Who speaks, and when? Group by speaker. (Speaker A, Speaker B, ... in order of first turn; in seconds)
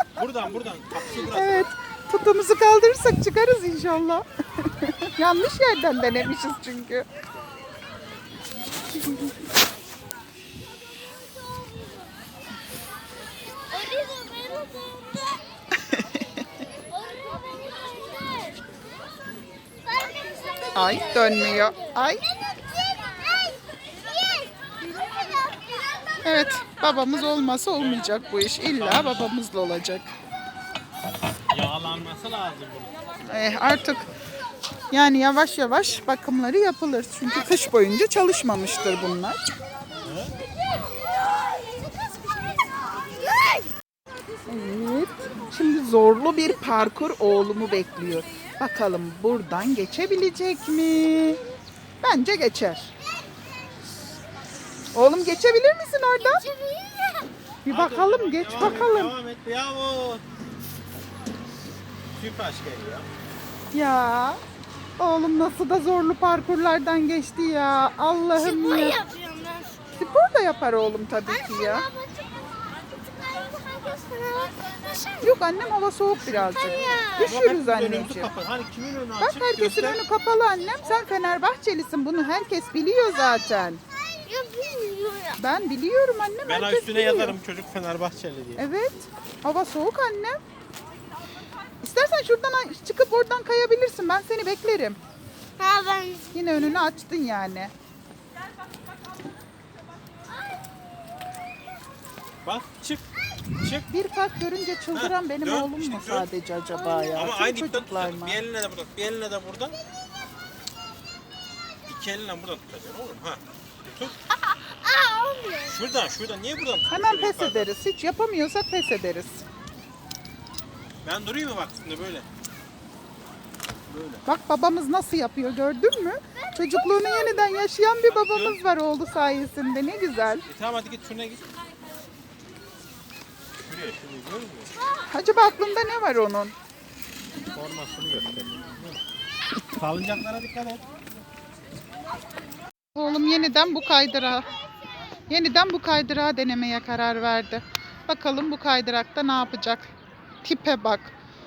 Speaker A: 0.2-1.7, 27.8-28.1, 28.7-29.3, 31.5-33.0, 40.0-40.3, 57.7-60.2, 62.1-63.1, 76.2-80.0, 86.4-88.6, 102.4-103.0, 103.6-103.9, 104.9-106.3, 107.1-109.7, 111.8-114.2, 115.7-117.7, 121.0-122.2, 123.9-124.2, 128.1-128.6, 130.5-131.4, 133.6-134.7, 137.5-139.0, 139.7-140.8
Speaker B: 1.3-7.0, 15.8-16.4, 20.7-22.2, 26.2-30.1, 33.2-34.1, 34.9-39.4, 44.5-51.4, 52.0-52.9, 54.9-56.5, 57.6-59.1, 63.7-64.4, 65.0-69.0, 70.0-71.9, 75.2-78.3, 79.2-83.8, 85.4-87.4, 88.6-90.4, 91.8-95.0, 96.3-97.7, 103.9-108.4, 116.9-119.4, 124.2-130.4, 135.1-136.5, 142.9-144.4, 145.3-149.9, 150.4-151.1
Speaker C: 13.7-15.4, 17.1-18.5, 19.9-21.7, 22.7-25.6, 56.2-57.3, 68.4-69.8, 71.3-75.4, 76.5-77.3, 84.1-85.4, 95.6-96.3, 114.7-115.7